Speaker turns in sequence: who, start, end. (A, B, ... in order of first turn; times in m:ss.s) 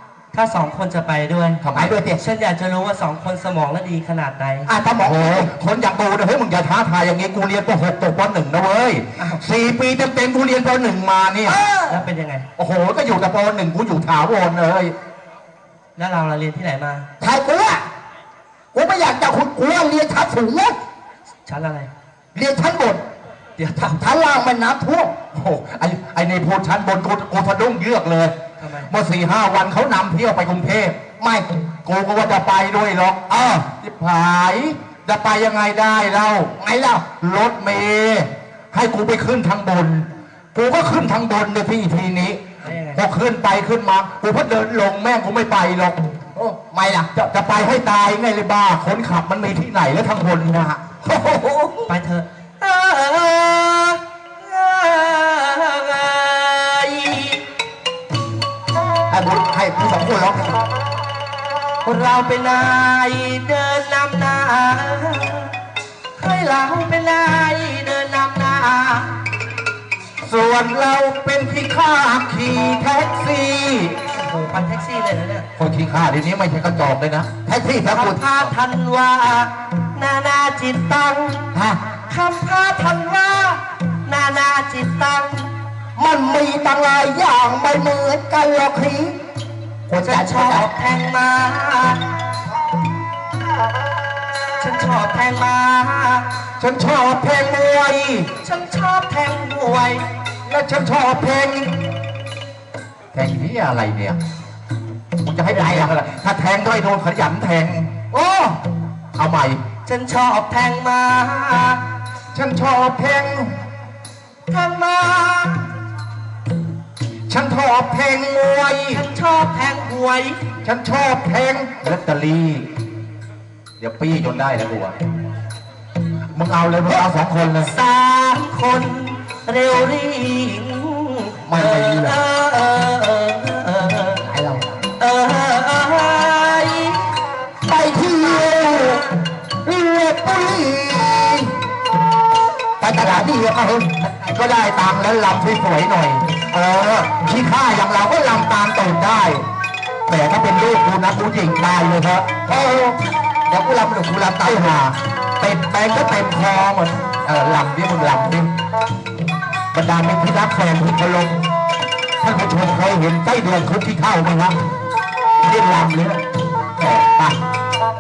0:00.3-0:01.6 A
0:01.6-0:02.0 B
0:01.8-0:02.2 C
0:02.2-0:04.7 A
0:04.7-0:05.5 C
0:05.0-0:11.6 B
0:11.5-0:12.0 C
0:11.9-0:12.5 A
0:12.6-0:14.9 B
0:16.0-0:17.1 A
0:17.2-0:17.9 C
0:18.7-0:20.8 C
0:21.5-0:21.9 A
0:22.3-0:23.0 C
0:23.6-0:24.0 A
0:23.8-0:25.1 C
0:25.3-0:28.3 B
0:28.6-0:28.9 A
0:28.9-0:31.0 B
0:31.2-0:31.6 C
0:31.8-0:36.5 B
0:33.3-0:33.7 C
0:36.6-0:37.1 C
0:37.2-0:46.0 B
0:42.6-0:43.0 A
0:46.4-0:47.1 C
0:47.1-0:51.7 B
0:51.9-0:57.4 A
0:59.1-1:00.6 C
1:01.8-1:05.6 A
1:06.2-1:09.2 A
1:10.2-1:14.0 B
1:14.1-1:15.5 A
1:15.6-1:17.4 B
1:17.4-1:18.2 C
1:17.8-1:21.5 A
1:21.5-1:21.8 C
1:22.1-1:25.5 A
1:26.0-1:29.2 C
1:29.9-1:30.7 C
1:30.0-1:32.2 A
1:34.6-1:36.3 A
1:36.6-1:38.3 B
1:38.4-1:40.0 A
1:40.5-1:41.8 B
1:43.1-1:44.2 B
1:45.2-1:47.9 B
1:45.5-1:45.9 C
1:48.1-1:48.6 C
1:49.2-1:49.6 B
1:49.8-1:51.8 A
1:52.3-1:53.6 B
1:54.5-1:55.7 A
1:57.3-1:59.0 B
1:58.9-2:00.4 A
2:00.6-2:02.7 B
2:03.8-2:05.0 B
2:06.4-2:07.7 B
2:07.7-2:14.2 A
2:11.5-2:12.2 C
2:14.2-2:14.8 C
2:15.0-2:17.1 A
2:17.6-2:21.5 C
2:22.8-2:23.9 C
2:24.0-2:29.5 B
2:30.1-2:32.4 B
2:32.5-2:34.7 C
2:34.2-2:38.5 B
2:39.7-2:41.4 B
2:42.2-2:44.6 B
2:45.4-2:46.2 B
2:46.8-2:47.4 B